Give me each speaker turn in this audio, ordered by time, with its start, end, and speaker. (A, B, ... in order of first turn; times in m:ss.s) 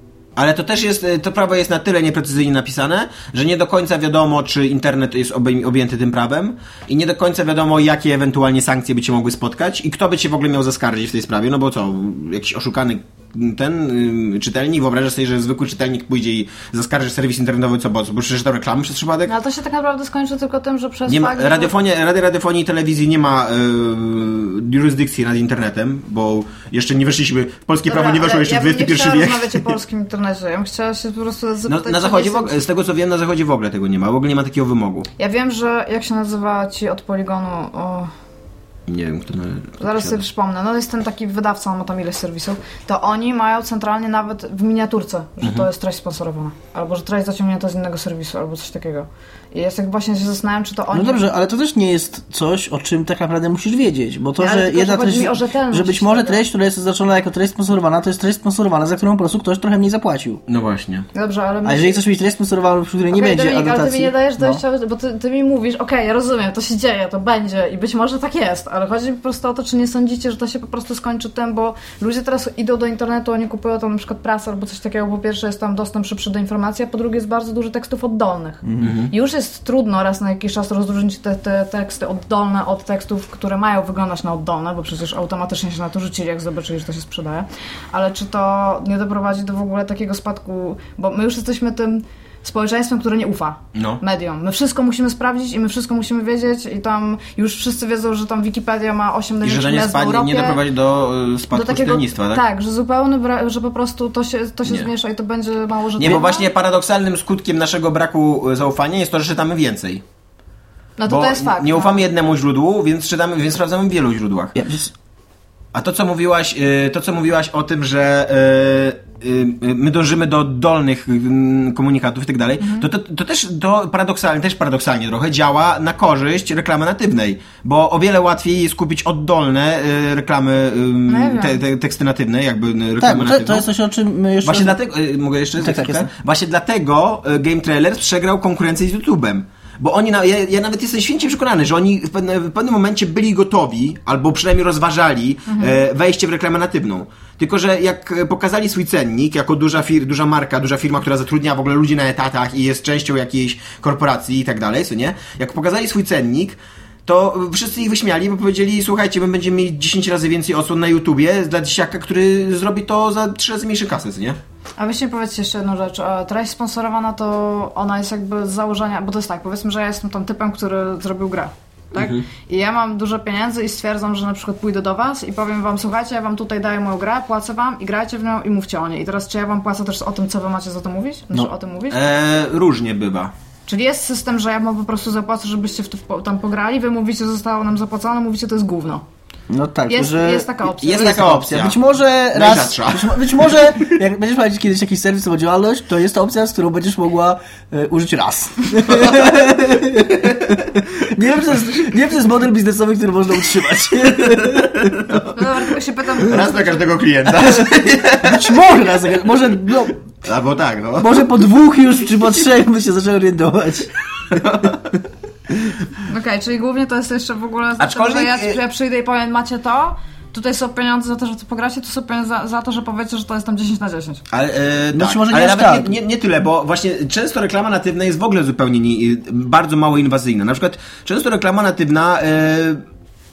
0:00.4-0:19.3 A
0:19.3-0:21.7 B
0:21.1-0:29.7 A
0:27.9-0:32.6 B
0:31.7-0:35.1 A
0:35.2-0:38.1 B
0:38.9-0:40.2 A
0:39.8-0:51.3 B
0:45.4-0:45.7 A
0:50.9-1:00.4 C
0:54.4-0:56.4 B
1:00.5-1:01.1 A
1:01.1-1:02.0 B
1:01.6-1:04.6 C
1:03.1-1:40.6 B
1:18.6-1:19.0 C
1:18.8-1:19.1 A
1:33.7-1:34.0 A
1:39.4-1:42.4 A
1:41.5-1:46.5 B
1:46.0-1:50.0 A
1:51.0-1:52.0 B
1:51.1-1:54.6 A
1:54.6-1:54.9 C
1:55.7-2:13.7 A
2:02.6-2:02.9 B
2:11.1-2:11.6 B
2:13.0-2:14.8 C
2:14.4-2:44.4 A
2:15.6-2:16.1 C
2:25.5-2:25.8 B
2:44.8-3:02.0 B
2:52.0-2:52.3 A
3:01.9-3:03.3 A
3:03.7-3:09.0 B
3:09.5-3:24.9 C
3:09.9-3:11.2 B
3:10.8-3:13.8 A
3:24.4-3:25.3 A
3:25.4-3:26.8 B
3:26.2-3:28.8 A
3:28.2-3:30.0 C
3:30.2-3:31.3 A
3:31.0-3:34.4 C
3:34.3-3:34.9 A
3:36.1-3:44.2 B
3:37.8-3:38.6 A
3:44.3-3:52.8 A
3:44.9-3:46.0 C